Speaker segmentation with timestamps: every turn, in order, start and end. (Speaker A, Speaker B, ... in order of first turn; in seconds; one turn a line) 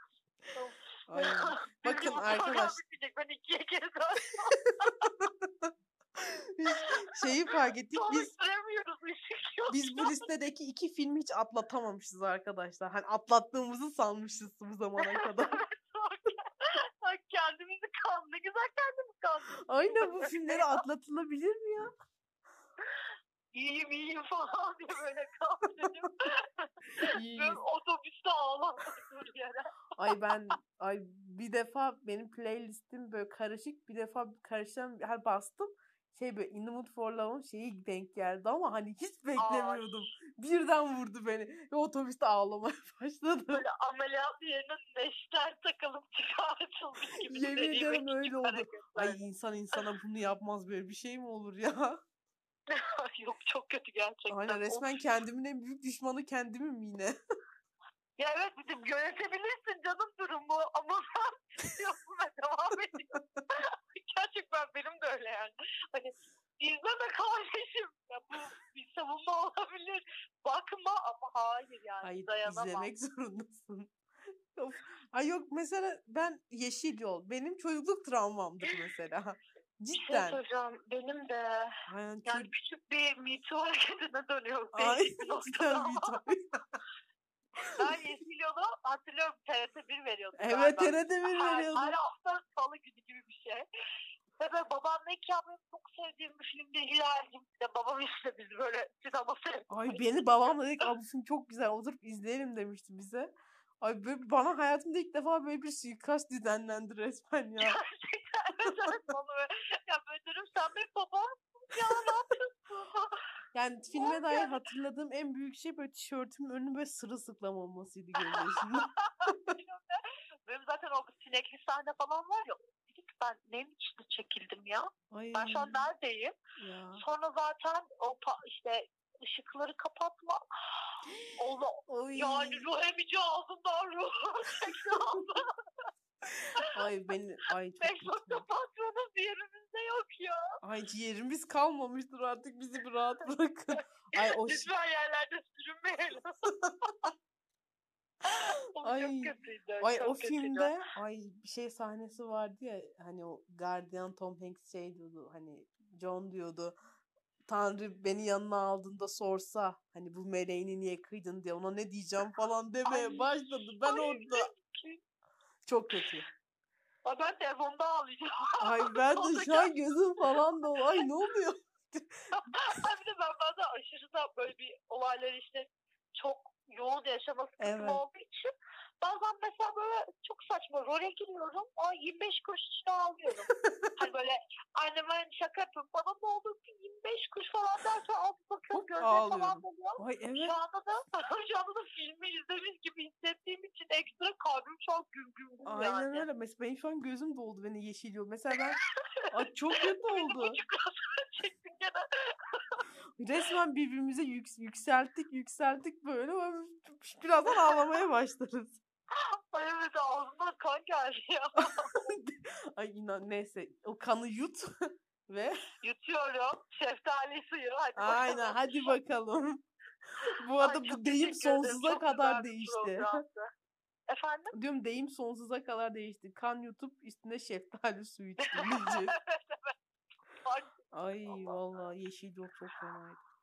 Speaker A: 0.6-5.1
Speaker B: 1.1-2.8
Speaker B: 4.6-8.3
Speaker A: 6.7-7.3
Speaker A: 7.9-10.2
Speaker B: 9.7-15.6
Speaker A: 15.0-20.8
Speaker B: 19.7-21.9
Speaker A: 22.9-29.7
Speaker B: 26.9-27.6
Speaker B: 30.0-43.6
Speaker A: 39.4-40.0
Speaker A: 43.5-49.2
Speaker B: 47.2-52.0
Speaker A: 52.7-54.9
Speaker B: 54.3-57.1
Speaker A: 58.2-72.9
Speaker B: 72.0-74.0
Speaker B: 74.5-80.4
Speaker A: 79.9-86.2
Speaker B: 81.9-82.5
Speaker B: 84.7-86.8
Speaker A: 87.8-93.6
Speaker B: 90.4-92.0
Speaker A: 94.4-100.0
Speaker B: 99.7-107.8
Speaker A: 107.6-113.2
Speaker B: 113.5-119.5
Speaker A: 113.9-114.6
Speaker A: 118.2-126.4
Speaker B: 125.1-125.8
Speaker B: 126.6-127.0
Speaker A: 127.0-135.8
Speaker B: 131.9-132.7
Speaker B: 136.3-138.4
Speaker A: 137.8-140.5
Speaker B: 140.6-144.7
Speaker A: 144.2-146.4
Speaker A: 148.3-150.7
Speaker B: 148.3-156.8
Speaker B: 157.5-164.5
Speaker A: 162.9-163.3
Speaker A: 163.8-165.0
Speaker B: 165.7-166.3
Speaker A: 167.0-169.8
Speaker B: 168.6-172.8
Speaker A: 172.4-196.2
Speaker B: 177.6-178.0
Speaker B: 183.5-183.9
Speaker B: 188.7-190.6
Speaker B: 195.7-198.8
Speaker A: 198.8-202.8
Speaker B: 199.3-200.6
Speaker B: 203.2-208.8
Speaker A: 209.2-212.1
Speaker B: 211.7-214.7
Speaker B: 215.3-215.6
Speaker A: 215.8-218.6
Speaker B: 218.0-219.6
Speaker B: 220.2-223.2
Speaker A: 220.6-223.5
Speaker A: 224.1-224.5
Speaker B: 224.5-229.1
Speaker A: 228.5-229.7
Speaker A: 230.4-230.8
Speaker B: 230.9-233.2
Speaker A: 231.3-231.5